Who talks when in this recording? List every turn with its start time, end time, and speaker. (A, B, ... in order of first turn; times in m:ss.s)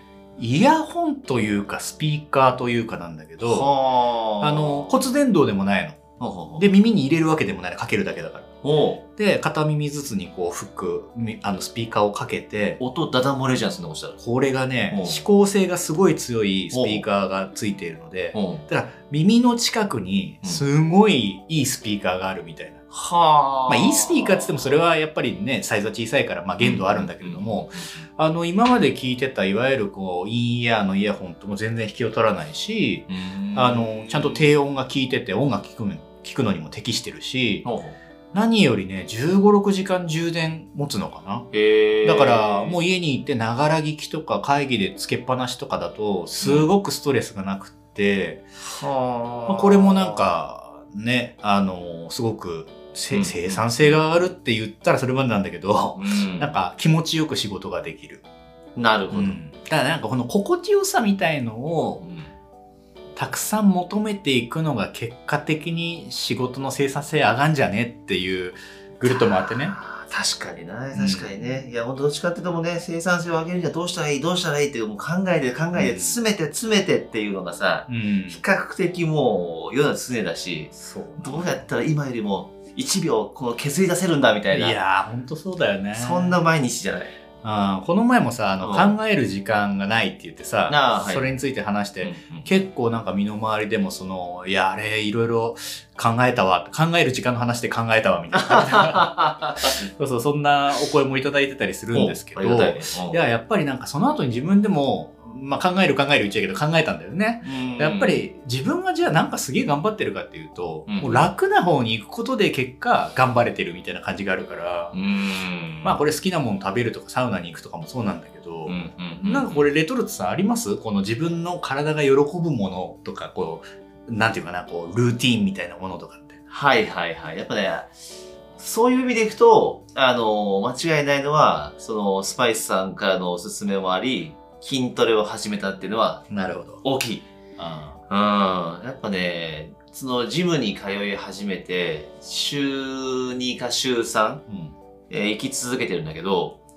0:00.4-0:03.7 A
0:03.5-0:05.0 B
0:04.4-0:06.0 A
0:06.2-0:06.6 B
0:06.6-0:08.5 A
0:08.6-0:09.0 B
0:09.2-0:12.8 A
0:12.8-0:14.2 B
0:14.2-0:22.8 A
0:14.9-0:15.2 B
0:16.7-0:17.0 B
0:18.3-0:18.6 B
0:22.9-0:24.7 B
0:23.7-0:37.6 A
0:26.6-0:28.0 B
0:33.1-0:34.5 B
0:37.6-0:38.0 B
0:38.3-0:41.5 A
0:41.5-0:42.8 B
0:42.0-0:48.4 A
0:46.4-0:46.7 B
0:48.6-0:50.3 B
0:49.5-0:58.2 A
0:53.1-0:54.0 B
0:55.9-0:56.5 B
0:58.8-0:59.4 B
0:59.1-1:02.0 A
1:02.0-1:02.3 B
1:03.2-1:09.8 A
1:09.0-1:24.8 B
1:10.9-1:11.6 A
1:15.7-1:16.2 A
1:17.9-1:18.4 A
1:20.7-1:21.6 A
1:24.5-1:26.4 A
1:25.9-1:27.1 B
1:27.4-1:55.0 A
1:28.6-1:28.9 B
1:30.7-1:31.3 B
1:32.0-1:32.5 B
1:38.4-1:39.6 B
1:41.9-1:43.2 B
1:47.4-1:48.3 B
1:50.9-1:51.3 B
1:54.9-1:56.0 B
1:55.8-2:06.4 A
1:58.6-1:59.6 B
2:06.5-2:07.9 B
2:08.6-2:16.2 B
2:16.3-2:16.8 A
2:16.8-2:17.2 B
2:17.6-2:18.0 A
2:18.1-2:24.4 B
2:25.1-2:26.6 B